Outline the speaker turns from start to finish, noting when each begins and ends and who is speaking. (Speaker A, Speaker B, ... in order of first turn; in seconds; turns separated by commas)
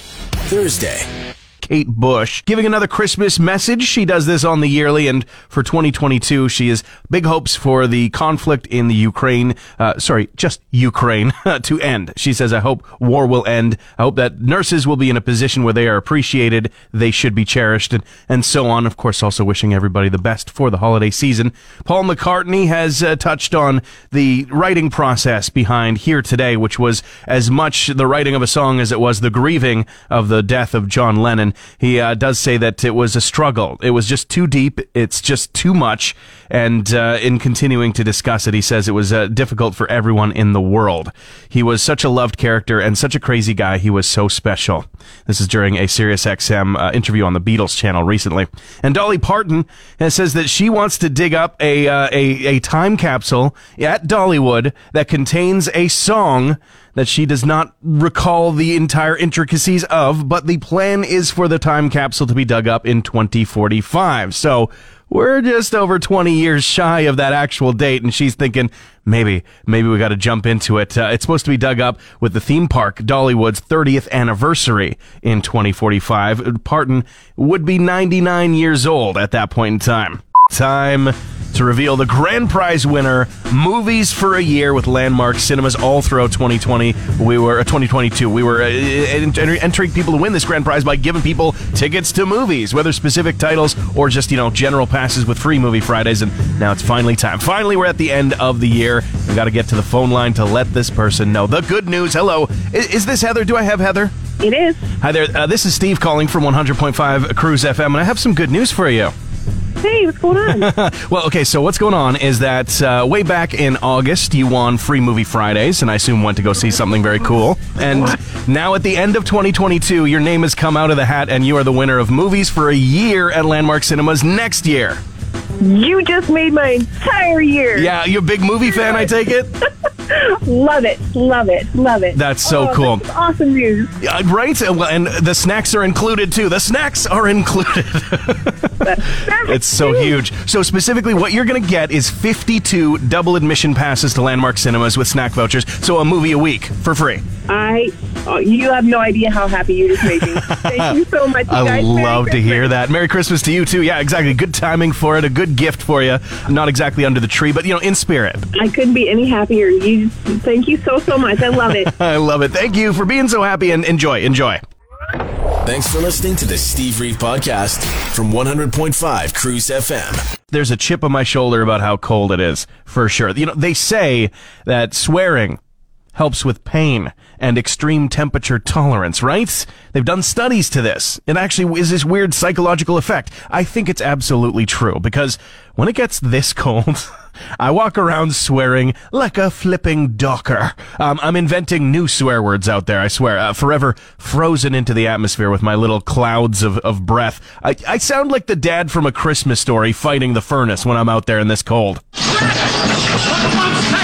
Speaker A: 0.5-1.1, Speaker B: 1.6-104.1, Speaker C: 104.4-104.9, Speaker B: 105.0-109.1, Speaker C: 109.8-110.7, Speaker B: 110.5-125.0, Speaker C: 125.6-127.9, Speaker B: 127.8-129.6, Speaker C: 130.1-133.9, Speaker B: 132.2-133.0, Speaker B: 134.0-138.8, Speaker C: 138.8-140.2, Speaker B: 139.5-147.2, Speaker C: 147.5-152.8, Speaker B: 150.7-151.0, Speaker B: 151.5-158.4, Speaker C: 158.5-161.9, Speaker B: 161.6-164.6, Speaker A: 165.6-170.3, Speaker B: 170.5-175.6, Speaker B: 176.2-202.0